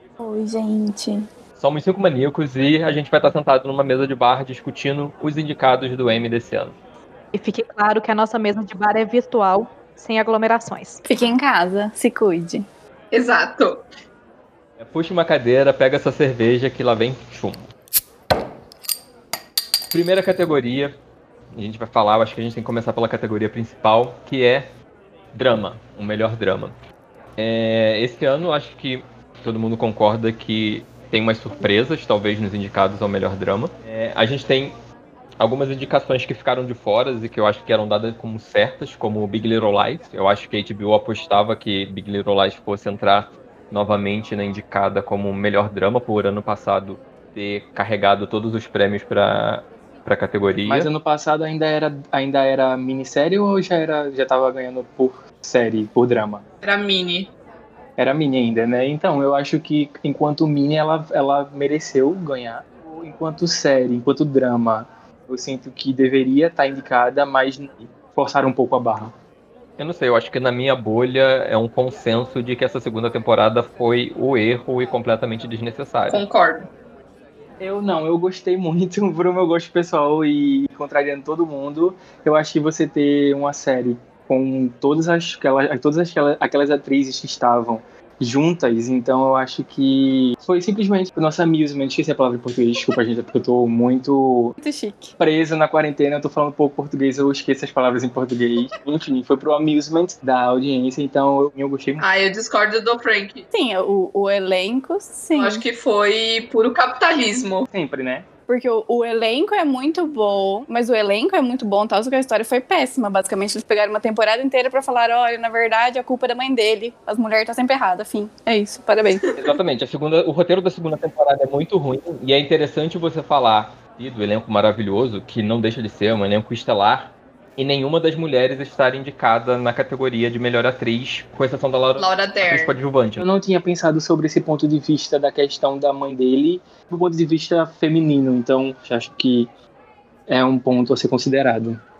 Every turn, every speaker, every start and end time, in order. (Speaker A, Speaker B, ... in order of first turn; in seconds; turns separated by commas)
Speaker A: 0.2-1.2, Speaker B: 1.6-6.8, Speaker C: 7.3-11.0, Speaker A: 11.1-12.7, Speaker D: 13.1-13.8, Speaker B: 14.8-17.6, Speaker B: 19.9-20.9, Speaker B: 21.5-24.7, Speaker B: 25.3-26.7, Speaker B: 27.4-34.8, Speaker B: 35.4-50.9, Speaker E: 50.6-56.4, Speaker D: 56.6-57.3, Speaker E: 58.0-69.1, Speaker B: 69.8-76.2, Speaker D: 76.1-76.7, Speaker E: 77.6-94.5, Speaker A: 94.6-95.1, Speaker E: 95.2-102.0, Speaker D: 102.0-103.5, Speaker A: 103.5-105.6, Speaker D: 105.3-107.7, Speaker E: 107.7-108.3, Speaker A: 108.5-119.4, Speaker B: 119.3-133.2, Speaker D: 132.0-132.8, Speaker E: 133.2-139.5, Speaker E: 140.3-141.8